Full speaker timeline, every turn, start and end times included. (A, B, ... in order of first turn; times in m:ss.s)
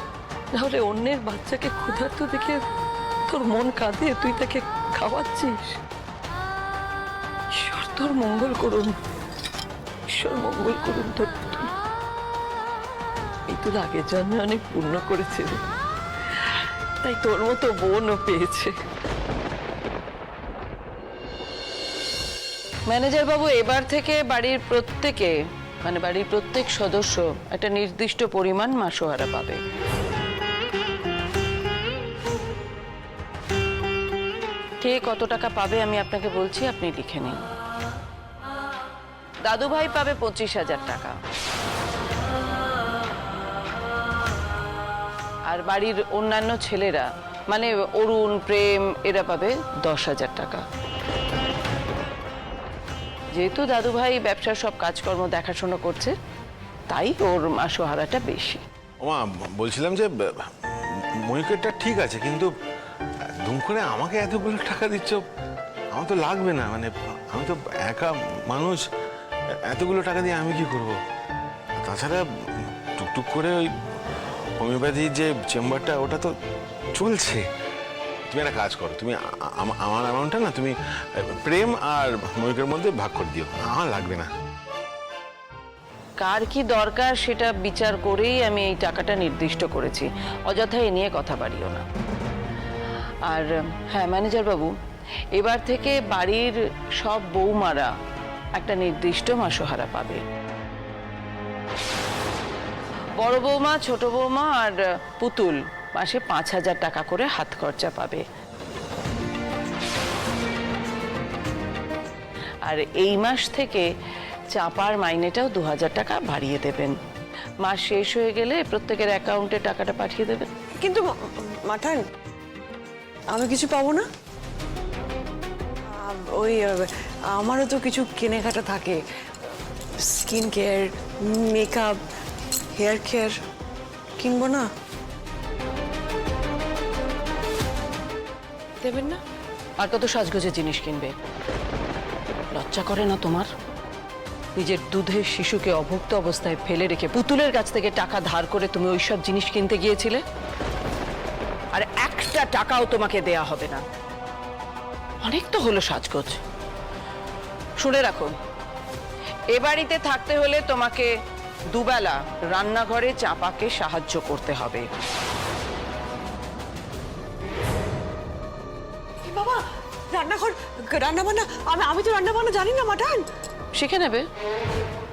0:00.5-0:02.6 A
0:03.3-0:05.8 A
0:07.5-0:09.0 A
0:10.1-0:11.7 A
0:13.5-0:15.6 A
0:17.0-0:18.7 A
0:22.9-0:29.6 A
0:34.8-0:37.4 A
0:39.4-0:41.2 A
0:45.5-0:50.6 A
0:53.3-0:56.1 A
0:56.9-0:58.6 A
0:59.0-1:00.2 B
1:01.3-1:02.5 B
1:03.4-1:05.2 B
1:05.9-1:08.8 B
1:09.7-1:11.0 B
1:11.8-1:12.2 B
1:13.0-1:13.7 B
1:14.6-1:16.3 B
1:16.9-1:17.4 B
1:18.3-1:20.7 B
1:21.4-1:24.3 B
1:26.2-1:31.8 A
1:33.3-1:34.7 A
1:35.3-1:37.9 A
1:38.6-1:40.2 A
1:43.2-1:48.2 A
1:52.6-1:53.8 A
1:54.5-1:57.0 A
1:57.6-2:00.5 A
2:00.8-2:02.0 C
2:03.3-2:04.0 C
2:06.0-2:09.0 C
2:10.0-2:12.0 C
2:12.7-2:13.3 C
2:14.2-2:14.7 C
2:18.8-2:19.2 A
2:19.8-2:21.1 A
2:22.5-2:23.5 A
2:24.6-2:30.2 A
2:31.7-2:33.8 A
2:35.2-2:36.4 A
2:37.8-2:38.3 A
2:39.5-2:41.1 A
2:41.7-2:44.9 A
2:49.2-2:49.6 C
2:50.1-2:53.2 C
2:53.7-2:54.2 A